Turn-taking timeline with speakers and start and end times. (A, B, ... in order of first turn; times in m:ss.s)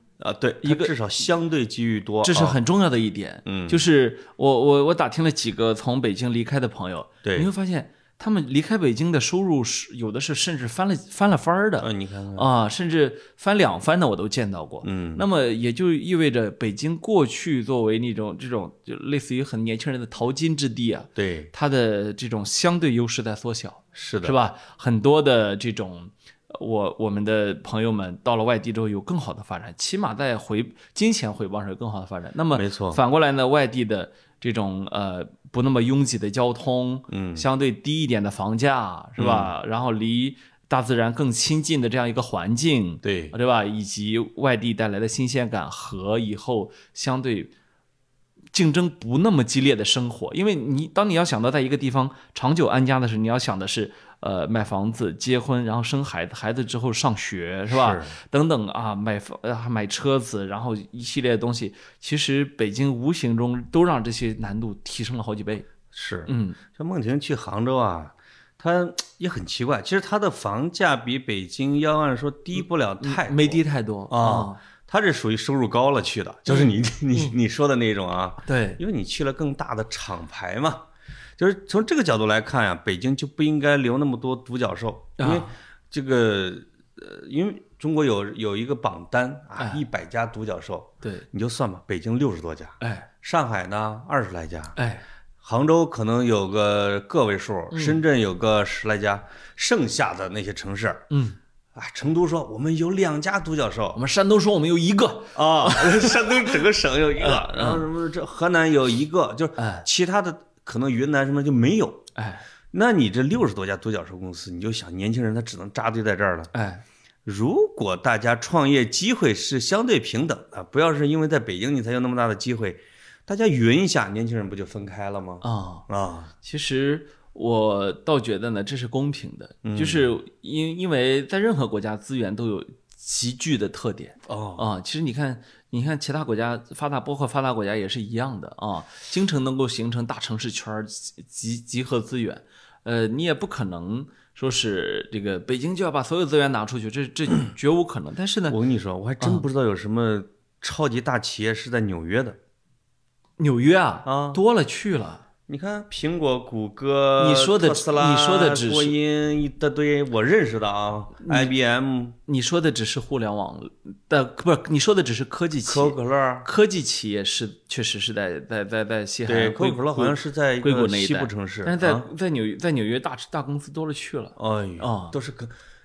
0:00.2-0:02.6 A
0:00.6-0:00.9 B
0:02.2-0:47.5 B
0:03.5-0:03.8 A
0:07.2-0:07.5 A
0:11.8-0:12.5 A
0:14.8-0:15.2 A
0:21.2-0:21.5 A
0:24.0-0:24.4 A
0:32.5-0:33.0 A
0:37.1-0:37.5 A
0:39.2-0:39.5 A
0:43.0-0:43.3 A
0:48.5-1:05.7 B
0:57.7-0:58.2 A
1:05.9-1:20.9 A
1:06.3-1:06.6 B
1:13.0-1:14.6 B
1:16.5-1:17.3 B
1:18.5-1:18.8 B
1:21.4-1:34.8 A
1:25.2-1:25.5 B
1:29.6-1:29.8 B
1:32.8-1:33.1 B
1:34.8-1:35.0 B
1:35.4-1:41.1 A
1:37.7-1:38.0 B
1:41.1-1:41.4 B
1:41.8-1:44.0 A
1:44.0-1:46.6 B
1:45.4-1:52.1 A
1:47.2-1:47.9 B
1:49.6-1:49.9 B
1:52.2-1:52.4 B
1:52.7-1:56.5 A
1:56.5-1:56.8 B
1:57.2-2:06.3 A
2:05.4-2:05.9 B
2:06.4-2:28.6 B
2:09.6-2:10.1 A
2:14.3-2:14.6 A
2:28.5-2:32.4 A
2:33.4-2:35.2 B
2:34.1-2:34.4 A
2:35.5-2:42.2 A
2:37.2-2:39.0 B
2:41.2-2:41.5 B
2:42.3-2:55.2 B
2:45.6-2:46.5 A
2:49.3-2:52.1 A
2:54.4-2:55.5 A